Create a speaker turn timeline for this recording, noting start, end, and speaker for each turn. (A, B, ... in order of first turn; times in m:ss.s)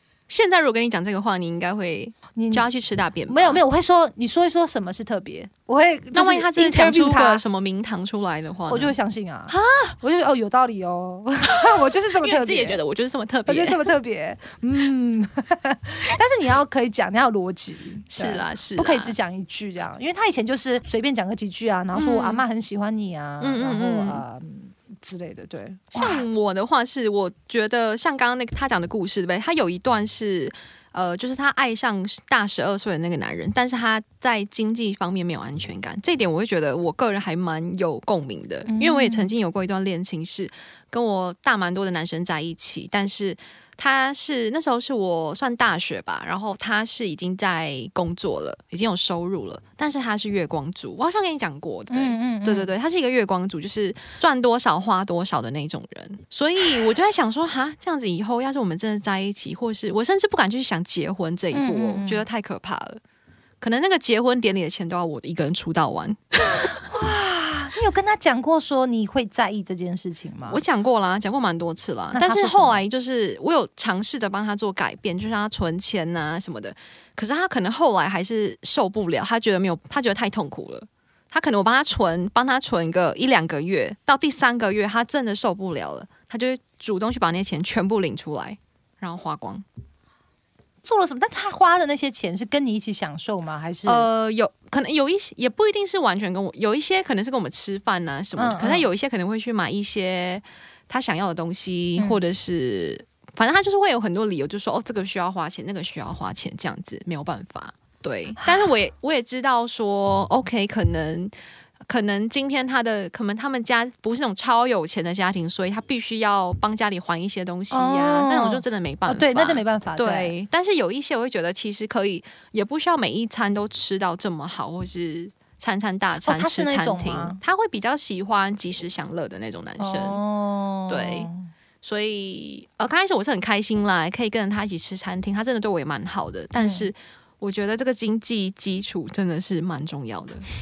0:00.3-0:03.6 A
0:02.4-0:02.7 B
0:03.3-0:07.4 B
0:06.2-0:09.0 A
0:08.7-0:12.8 B
0:09.5-0:10.0 A
0:11.6-0:13.9 A
0:13.5-0:26.2 B
0:18.1-0:19.2 A
0:22.0-0:22.4 A
0:23.4-0:24.2 A
0:25.9-1:03.0 A
0:38.7-0:39.3 B
0:51.9-0:52.7 B
1:01.5-1:02.3 B
1:03.6-1:06.8 A
1:06.9-1:10.6 B
1:10.5-1:29.6 A
1:12.1-1:12.8 B
1:30.8-1:34.1 B
1:33.9-1:51.3 A
1:38.4-1:38.9 B
1:51.8-2:10.2 A
1:57.7-2:00.3 B
2:06.2-2:07.4 B
2:09.8-2:11.5 B
2:10.9-2:11.3 A
2:11.8-2:20.5 A
2:16.6-2:16.9 B